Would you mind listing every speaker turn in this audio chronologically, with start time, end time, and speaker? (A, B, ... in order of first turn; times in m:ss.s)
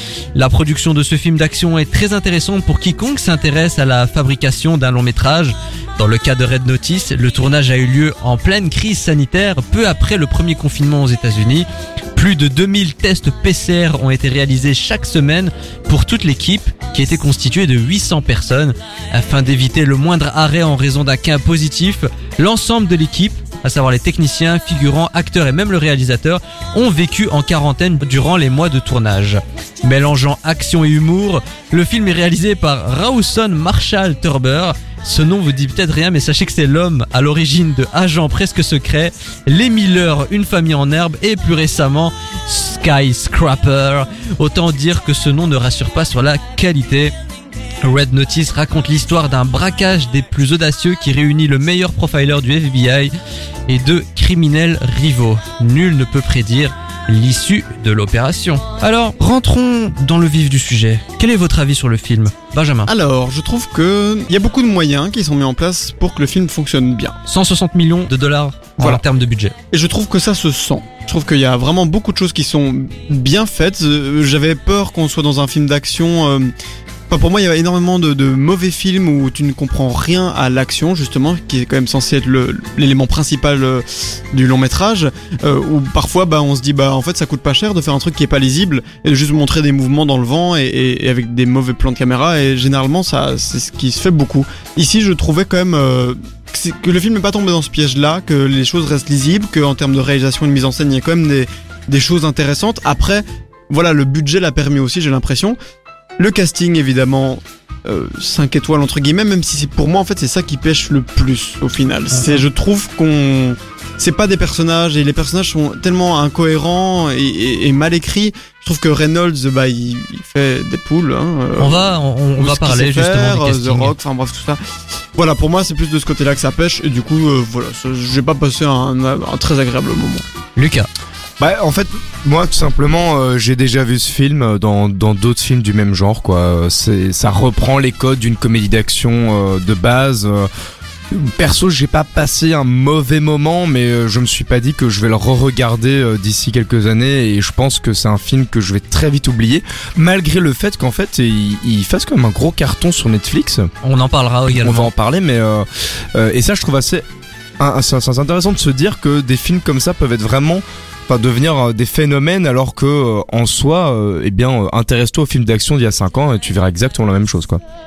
0:00.4-0:47.1 A
0:47.8-0:53.1 A
0:53.7-1:02.9 A
1:02.9-1:07.2 B
1:07.3-1:09.5 A
1:09.7-1:16.5 B
1:17.1-1:45.6 B
1:46.2-2:04.6 B
1:52.1-1:52.4 A
2:01.6-2:04.0 A
2:05.1-2:10.2 B
2:10.6-2:10.9 A
2:11.4-2:20.5 C
2:21.1-2:33.7 C
2:33.8-2:34.9 A
2:34.5-2:37.0 C
2:37.6-2:47.6 C